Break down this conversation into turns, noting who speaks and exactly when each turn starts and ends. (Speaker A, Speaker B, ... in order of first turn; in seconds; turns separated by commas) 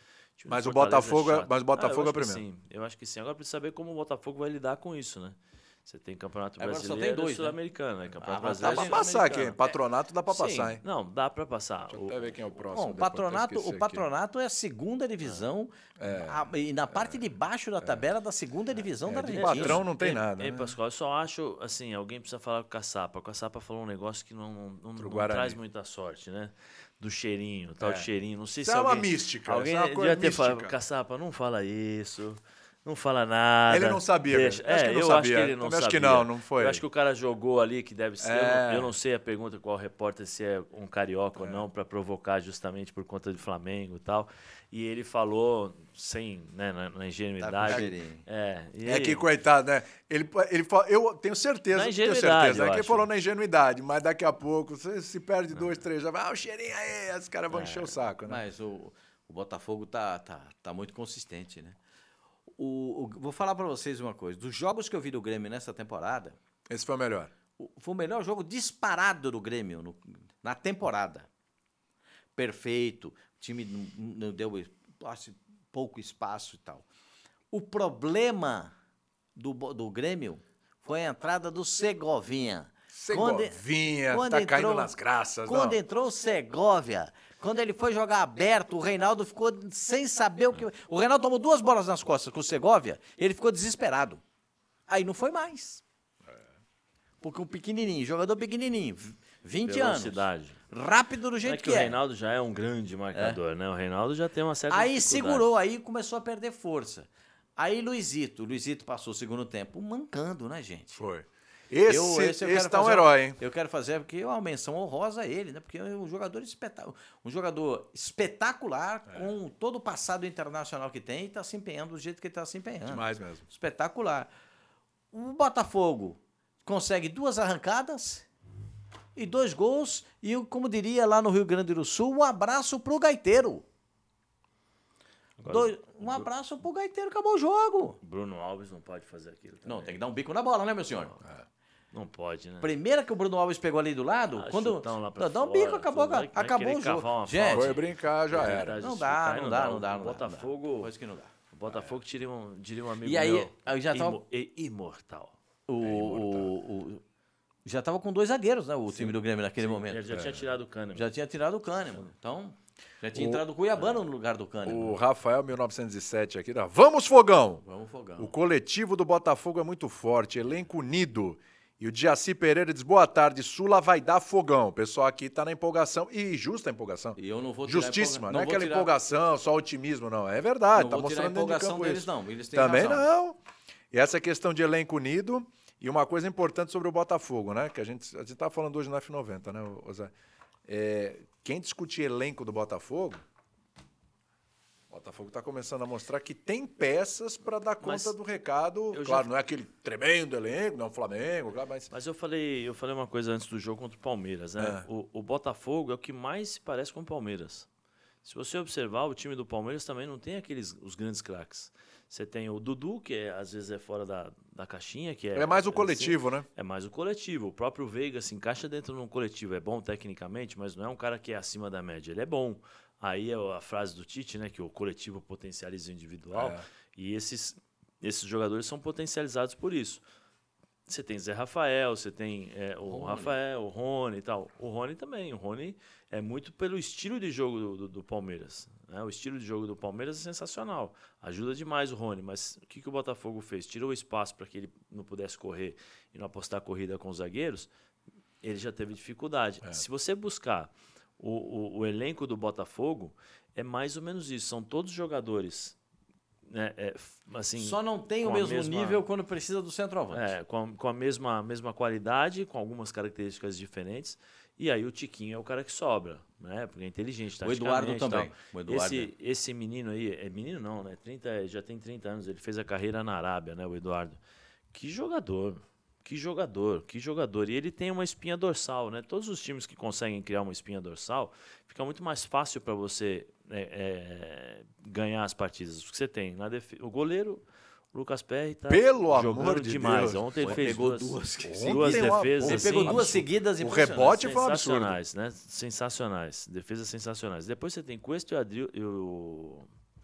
Speaker A: 0.4-9.6, Speaker B: 0.5-2.4, Speaker C: 6.6-7.6, Speaker C: 8.2-9.5, Speaker B: 8.6-10.8, Speaker A: 10.3-12.4, Speaker B: 11.9-14.1, Speaker C: 12.7-19.8, Speaker B: 16.0-17.2, Speaker B: 19.1-20.8, Speaker A: 19.3-49.3, Speaker B: 25.0-25.6, Speaker B: 27.8-28.1, Speaker B: 28.6-30.8, Speaker B: 33.7-36.8, Speaker B: 38.2-39.0, Speaker B: 41.4-41.7, Speaker C: 47.4-48.2, Speaker B: 48.9-58.4, Speaker A: 51.7-53.1, Speaker A: 57.5-58.0, Speaker C: 58.3-61.8, Speaker C: 62.6-66.4, Speaker B: 66.7-67.3, Speaker C: 67.6-71.3, Speaker C: 72.4-76.9, Speaker C: 77.5-78.7, Speaker C: 79.4-84.9, Speaker B: 82.9-85.8, Speaker C: 85.5-94.2, Speaker C: 94.9-95.8, Speaker C: 97.2-102.0, Speaker A: 99.7-100.6, Speaker A: 101.4-105.5, Speaker C: 103.1-103.4, Speaker C: 104.7-111.0, Speaker B: 111.0-113.4, Speaker C: 111.9-124.3, Speaker B: 122.9-123.5, Speaker C: 125.1-128.3, Speaker C: 129.2-133.7, Speaker A: 135.4-136.3, Speaker C: 135.5-138.0, Speaker A: 138.0-140.0, Speaker C: 139.7-141.2, Speaker A: 141.9-142.7, Speaker C: 142.6-147.8, Speaker A: 144.4-150.9, Speaker B: 147.5-148.8, Speaker C: 148.4-151.3, Speaker A: 151.5-155.3, Speaker B: 151.7-151.9, Speaker C: 153.0-154.2, Speaker C: 155.7-157.0, Speaker B: 155.8-156.5, Speaker C: 157.7-160.1, Speaker A: 159.0-161.1, Speaker B: 160.1-160.5, Speaker C: 160.9-164.9, Speaker B: 163.1-163.4, Speaker B: 164.6-167.7, Speaker C: 167.6-168.3, Speaker B: 168.2-183.4, Speaker C: 177.2-178.9, Speaker C: 180.8-183.1, Speaker B: 183.9-190.1, Speaker B: 190.7-193.2, Speaker B: 194.9-201.9, Speaker A: 197.8-198.2, Speaker A: 198.9-199.3, Speaker A: 201.9-207.7, Speaker B: 204.6-204.9, Speaker A: 208.2-230.0, Speaker B: 215.3-216.5, Speaker B: 226.3-226.6, Speaker A: 230.9-247.7, Speaker C: 232.8-233.3, Speaker A: 248.4-255.8, Speaker A: 256.5-259.0, Speaker C: 257.6-260.3, Speaker A: 260.1-274.2, Speaker C: 267.4-269.1, Speaker A: 274.7-293.2, Speaker B: 288.7-290.8, Speaker C: 290.4-294.2, Speaker B: 291.4-295.0, Speaker A: 294.1-299.7